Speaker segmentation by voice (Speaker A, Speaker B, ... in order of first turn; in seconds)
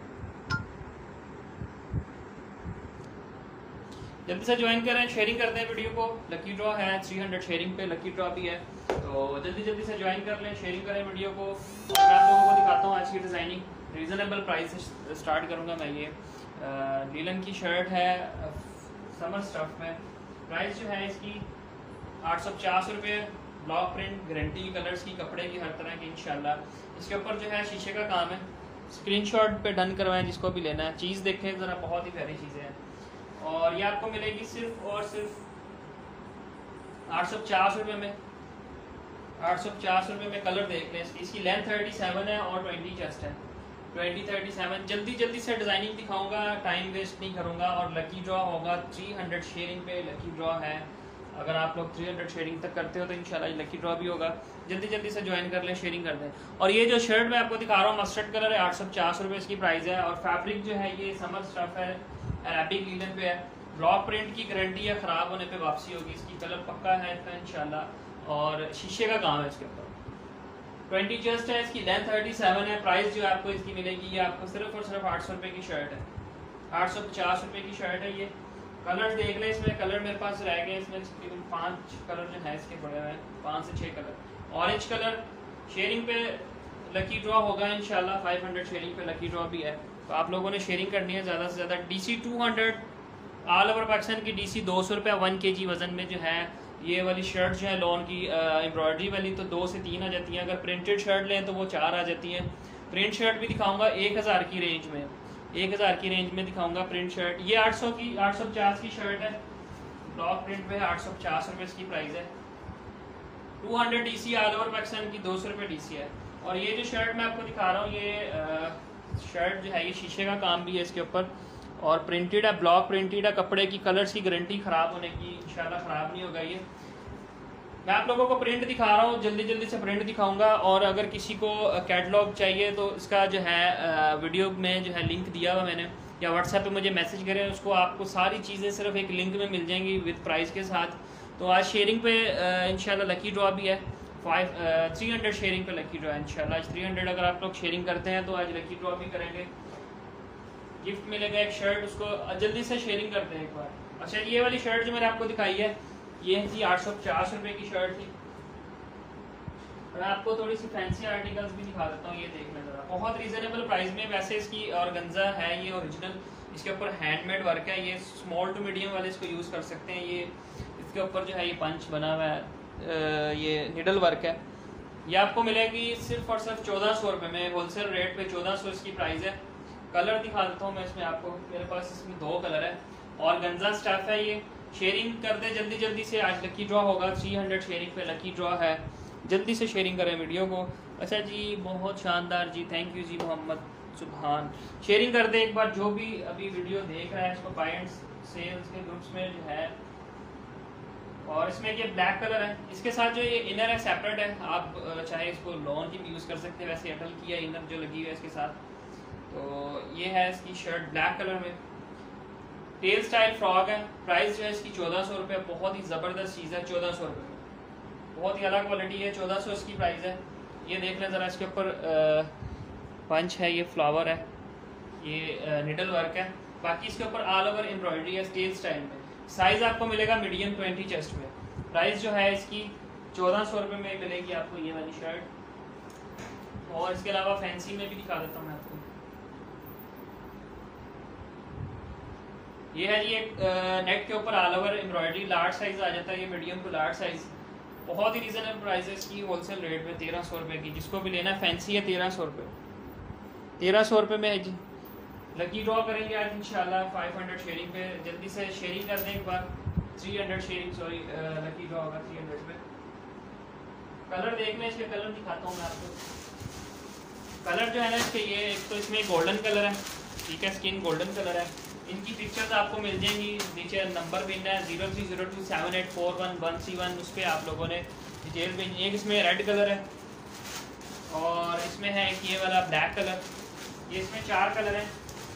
Speaker A: 4.3-21.5, 22.2-32.8, 33.4-35.4, 37.1-38.2, 39.4-43.4, 43.9-70.0, 70.9-76.1, 76.7-92.8, 93.5-109.4, 110.0-112.3, 113.6-126.7, 127.8-149.5, 150.8-158.1, 159.9-174.4, 175.1-199.8, 201.2-208.6, 209.3-211.6, 212.8-217.4, 218.1-222.3, 223.1-224.3, 225.0-235.3, 236.7-238.8, 242.7-247.3, 247.8-252.6, 253.6-254.6, 255.3-262.6, 264.1-266.0, 267.4-279.9, 281.1-283.3, 283.9-284.9